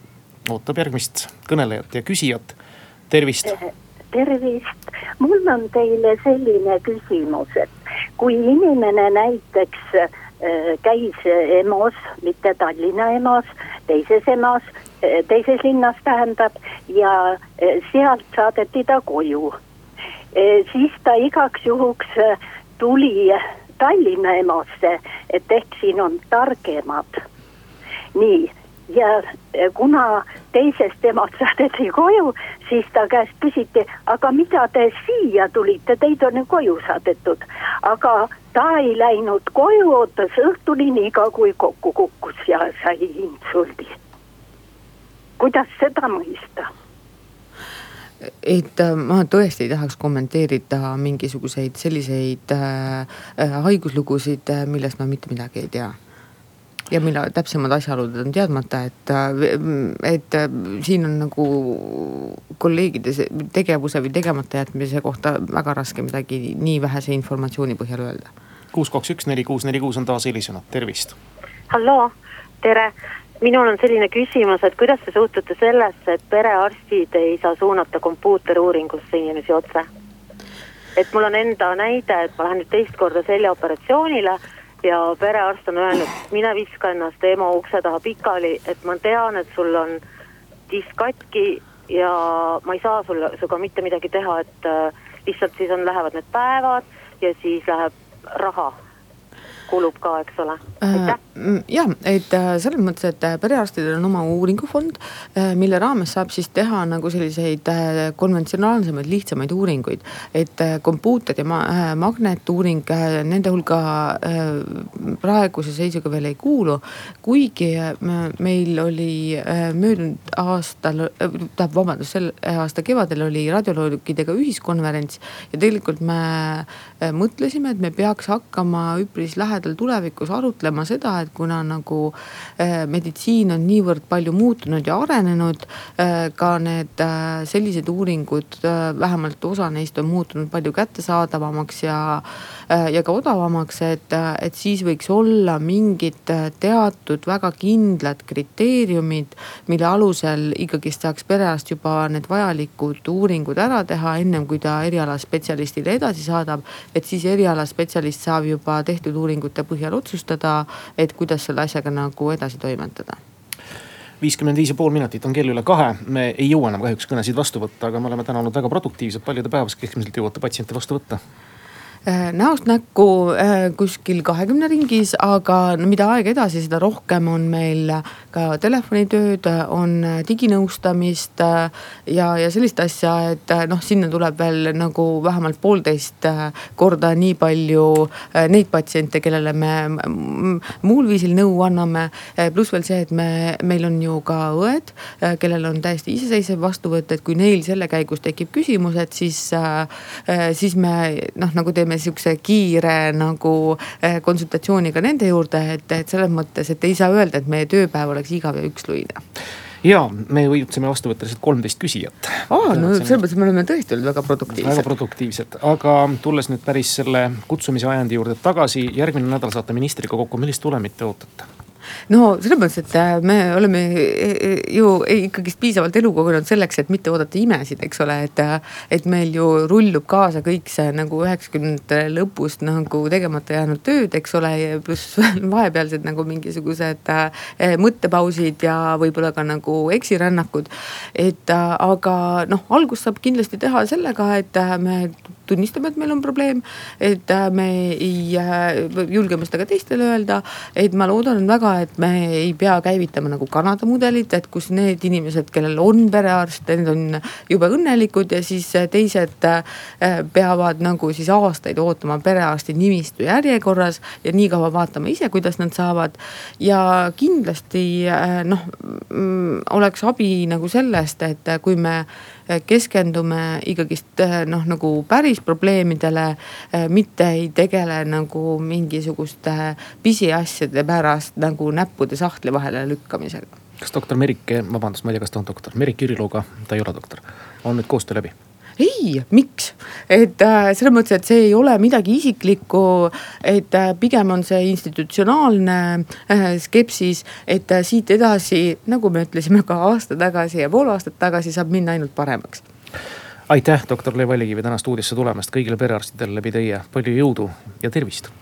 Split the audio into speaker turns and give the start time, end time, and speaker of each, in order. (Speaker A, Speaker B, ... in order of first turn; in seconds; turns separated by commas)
Speaker A: 0.5-2.6, Speaker A: 3.1-3.6, Speaker B: 3.6-19.6, Speaker B: 20.3-27.2, Speaker B: 28.1-44.0, Speaker B: 45.4-46.7, Speaker C: 48.2-56.0, Speaker C: 56.9-68.3, Speaker A: 68.7-71.2, Speaker D: 71.7-79.9, Speaker D: 81.0-90.0, Speaker D: 90.7-98.8, Speaker D: 99.7-101.2, Speaker C: 100.8-163.2, Speaker A: 164.2-171.2, Speaker C: 172.1-209.2, Speaker A: 209.8-213.2, Speaker C: 212.5-214.9, Speaker A: 214.6-221.5, Speaker C: 222.1-283.6, Speaker A: 283.8-288.3, Speaker C: 288.8-302.6, Speaker A: 303.5-308.3